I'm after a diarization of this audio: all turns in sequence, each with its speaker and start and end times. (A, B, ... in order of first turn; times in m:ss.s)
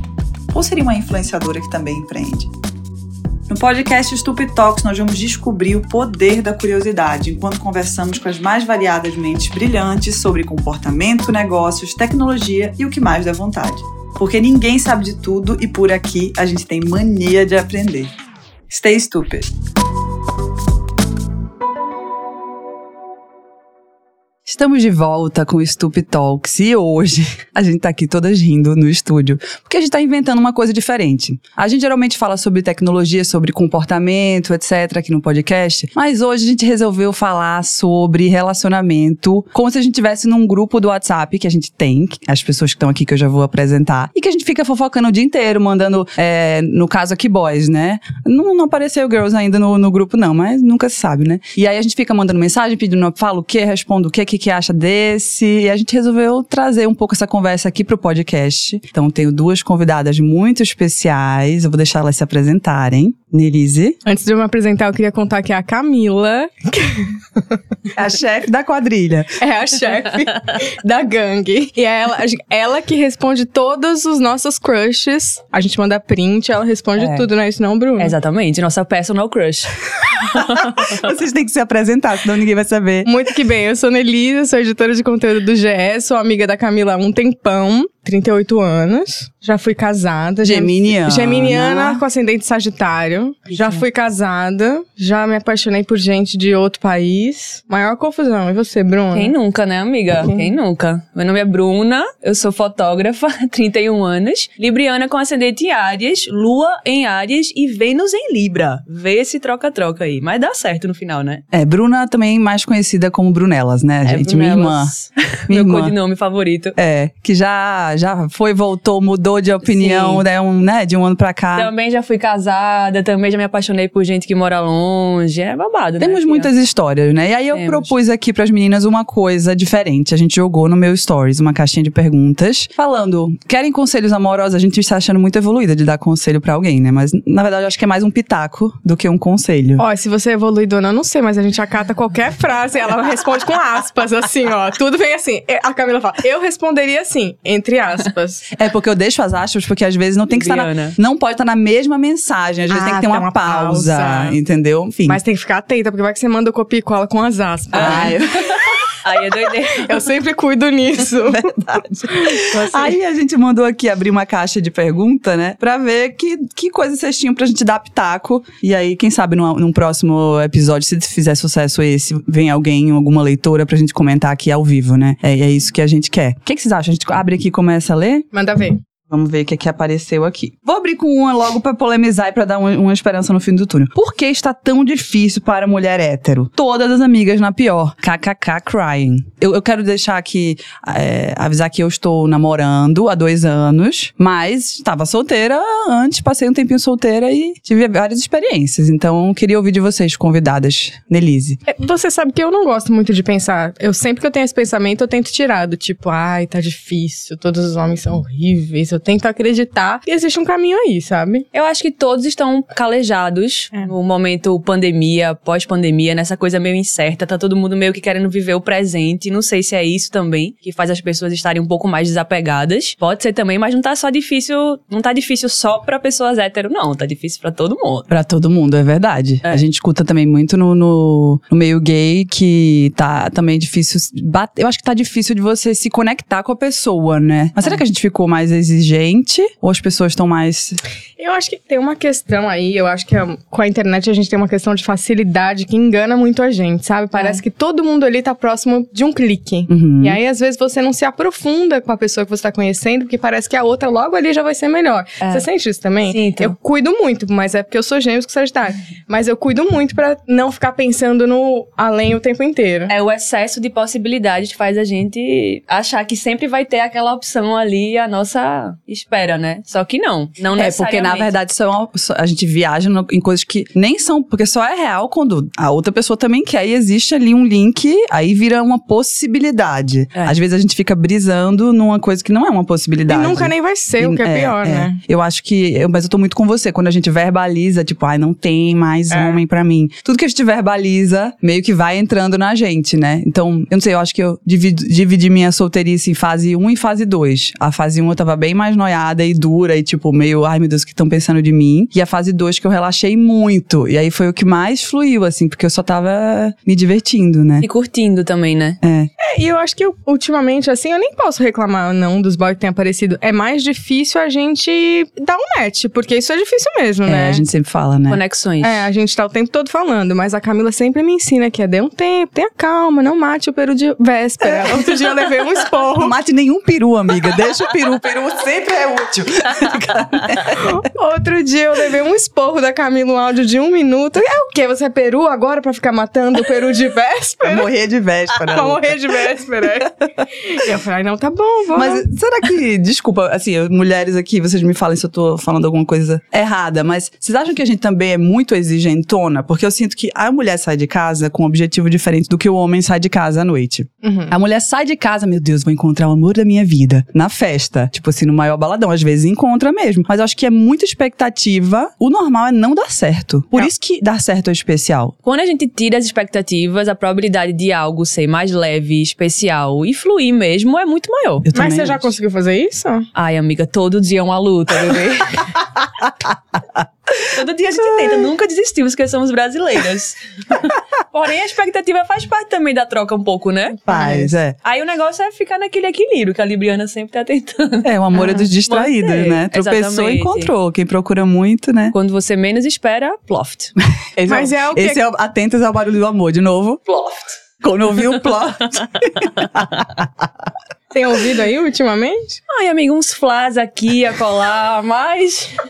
0:00.5-0:02.5 A
0:03.5-0:18.1 A
0:18.7-0:19.5 A
0:24.5-1:04.0 A
1:04.0-1:07.2 B
1:07.9-1:09.4 A
1:09.4-1:18.1 B
1:17.0-1:17.3 C
1:18.0-1:21.0 C
1:20.5-1:23.1 A
1:23.0-1:39.3 B
1:30.4-1:32.0 A
1:33.5-1:33.8 C
1:39.1-1:51.4 C
1:40.2-1:40.5 B
1:51.5-1:54.9 A
1:54.0-1:56.8 C
1:55.5-1:55.9 A
1:56.8-2:01.7 A
1:59.6-2:00.2 C
2:01.6-2:06.5 C
2:06.0-2:19.8 A
2:07.5-2:07.9 C
2:19.8-2:28.5 B
2:28.6-2:35.2 A
2:30.3-2:31.0 C
2:32.7-2:34.4 B
2:35.1-2:38.2 B
2:37.7-2:38.2 C
2:37.8-2:38.6 A
2:39.0-2:40.0 C
2:39.6-2:41.5 B
2:41.3-2:58.3 A
2:42.1-2:43.0 B
2:58.3-2:58.8 B
2:59.1-3:21.6 A
3:21.7-3:31.5 B
3:31.5-3:48.1 C
3:48.1-4:00.8 A
4:01.2-4:22.9 B
4:07.1-4:07.4 C
4:09.7-4:10.2 A
4:15.2-4:15.5 C
4:16.1-4:16.6 C
4:22.9-4:31.3 C
4:30.6-5:07.7 A
4:43.1-4:45.0 B
4:49.1-4:49.4 B
5:07.6-5:08.8 C
5:08.8-5:09.1 A
5:09.2-5:17.4 B
5:17.1-5:18.2 A
5:18.1-5:18.8 C
5:18.6-5:26.2 B
5:24.4-5:24.9 A
5:25.9-5:30.8 A
5:30.6-5:37.7 B
5:37.4-5:39.0 A
5:38.4-5:42.0 B
5:41.8-6:05.2 A
5:54.0-5:54.3 B
6:05.2-6:11.4 C
6:11.4-6:12.1 A
6:11.5-6:13.1 B
6:13.2-6:15.6 C
6:17.2-6:30.5 C
6:23.9-6:24.6 A
6:23.9-6:24.2 B
6:27.8-6:31.9 A
6:31.9-6:33.8 C
6:34.2-6:36.9 A
6:34.3-6:35.0 B
6:37.6-6:40.2 A
6:40.9-6:42.4 B
6:42.5-6:45.6 C